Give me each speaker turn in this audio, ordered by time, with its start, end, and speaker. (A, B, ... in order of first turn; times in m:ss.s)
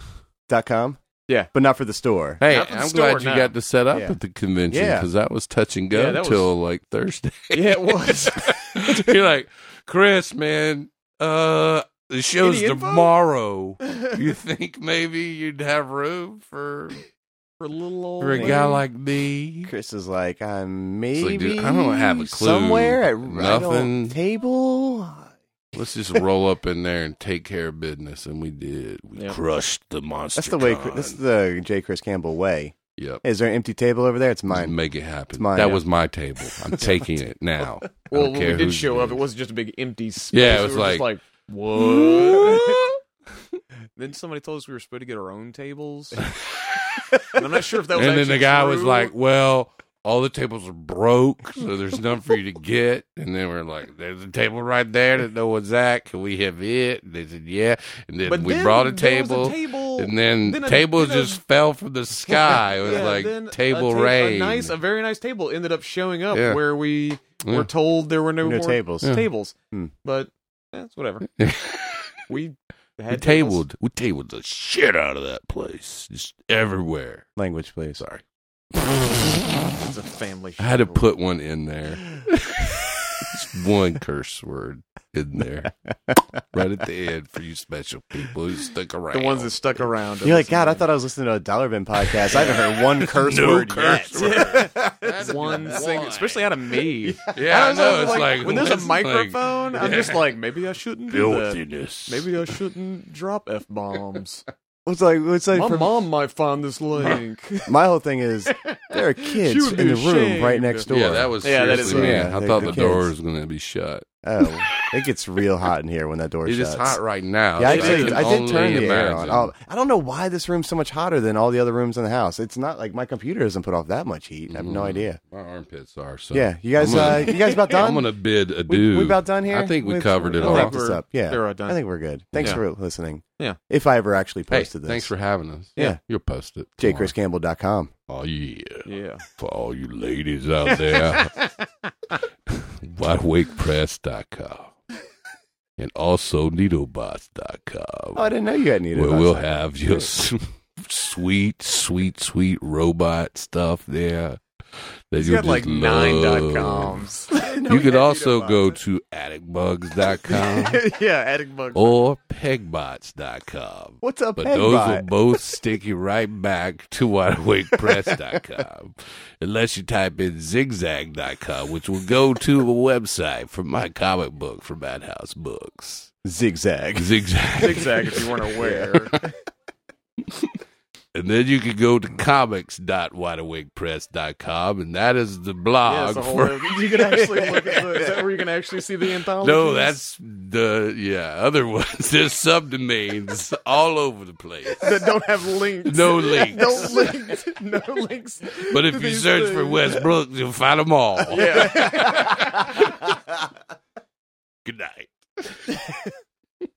0:00.5-0:01.0 A
0:01.5-0:02.4 A
0:02.4-0:17.0 B
0:02.5-0:03.5 C
0:03.9-0:04.2 A
0:04.7-0:05.1 A
0:05.9-0:06.5 C
0:07.5-0:09.1 C
0:12.4-0:13.1 C
0:17.6-0:18.8 C
0:18.2-0:19.7 B
0:18.3-0:18.7 A
0:19.6-0:25.3 A
0:21.2-0:24.2 B
0:25.7-0:31.2 B
0:30.4-0:34.8 A
0:33.0-0:33.2 B
0:34.5-0:39.2 B
0:35.3-0:35.8 A
0:36.6-0:37.0 A
0:38.1-0:42.8 C
0:40.3-0:41.1 B
0:41.8-0:43.0 B
0:44.0-0:46.2 C
0:46.2-0:47.4 B
0:47.3-0:49.1 C
0:47.9-1:04.7 B
0:58.2-1:01.4 C
1:02.2-1:11.3 C
1:06.3-1:06.6 B
1:07.4-1:07.7 B
1:08.4-1:09.1 A
1:11.4-1:12.2 B
1:12.3-1:13.6 C
1:13.1-1:17.3 B
1:17.4-1:18.0 A
1:18.7-1:19.8 B
1:19.8-1:21.0 C
1:20.6-1:25.7 B
1:26.5-1:29.5 B
1:29.1-1:30.9 C
1:30.2-1:35.3 A
1:32.0-1:36.5 B
1:32.3-1:32.7 C
1:34.1-1:44.4 C
1:37.3-1:40.3 B
1:41.1-1:42.5 B
1:44.8-1:46.0 A
1:45.5-1:47.7 C
1:47.6-1:53.1 A
1:48.5-1:50.9 C
1:50.9-1:54.0 B
1:51.4-1:52.8 C
1:54.2-1:57.0 A
1:56.4-1:59.5 B
1:57.6-2:05.2 A
1:57.6-1:59.0 C
2:04.5-2:10.8 B
2:06.3-2:08.1 A
2:06.9-2:07.6 C
2:08.7-2:15.1 A
2:10.3-2:11.8 C
2:12.3-2:12.6 B
2:14.5-2:17.1 B
2:16.8-2:17.9 A
2:18.1-2:21.4 B
2:18.8-2:19.2 C
2:20.6-2:21.6 C
2:22.5-2:24.8 B
2:25.8-2:28.3 B
2:28.1-2:30.0 A
2:28.9-2:40.8 B
2:35.2-2:38.8 C
2:40.1-2:42.0 C
2:41.7-2:56.1 B
2:44.0-2:45.1 A
2:47.8-2:48.2 A
2:56.2-2:57.2 A
2:56.9-2:58.3 B
2:57.6-2:59.2 C
2:58.6-2:58.8 A
3:01.1-3:07.1 B
3:05.8-3:10.0 C
3:09.4-3:15.1 B
3:14.8-3:20.1 C
3:15.8-3:17.2 B
3:18.7-3:23.2 B
3:21.3-3:22.5 C
3:22.0-3:22.4 A
3:24.6-3:25.7 B